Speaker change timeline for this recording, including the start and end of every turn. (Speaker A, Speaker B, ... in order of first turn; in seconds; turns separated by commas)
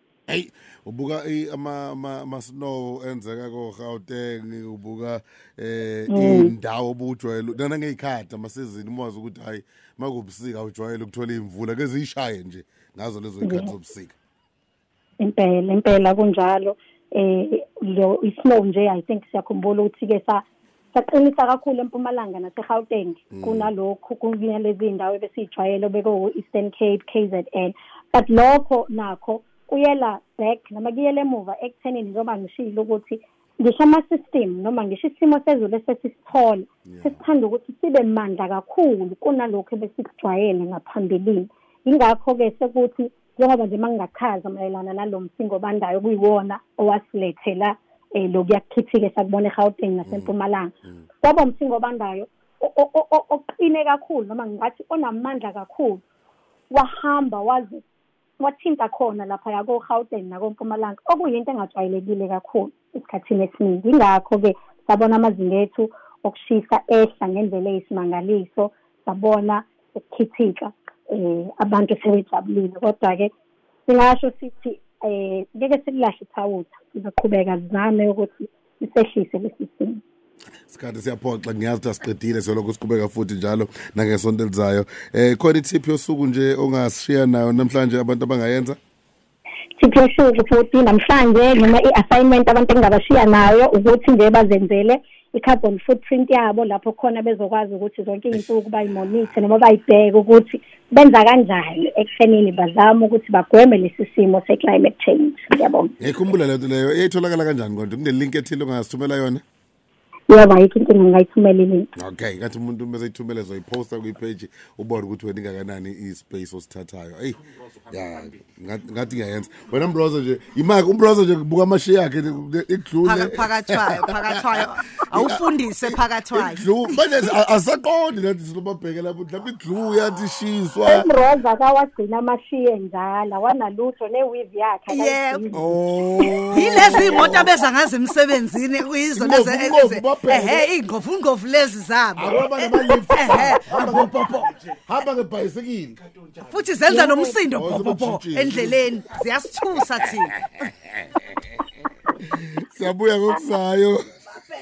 Speaker A: 0.3-14.1, Speaker B: 6.1-6.5, Speaker B: 13.4-13.7, Speaker B: 15.2-56.0, Speaker A: 23.3-23.7, Speaker A: 36.9-37.2, Speaker A: 50.0-50.3, Speaker B: 56.7-57.8, Speaker B: 58.4-73.3, Speaker B: 73.9-80.0, Speaker A: 80.7-88.8, Speaker B: 89.8-105.9, Speaker A: 106.0-109.4, Speaker B: 110.3-111.9, Speaker A: 112.0-124.0, Speaker C: 123.0-126.8, Speaker A: 125.1-131.1, Speaker B: 130.8-135.8, Speaker C: 134.9-135.5, Speaker A: 135.5-137.5, Speaker C: 136.5-144.5, Speaker A: 139.1-140.7, Speaker A: 142.2-146.0, Speaker C: 146.4-150.4, Speaker B: 146.9-147.4, Speaker A: 147.6-148.8, Speaker A: 152.3-154.0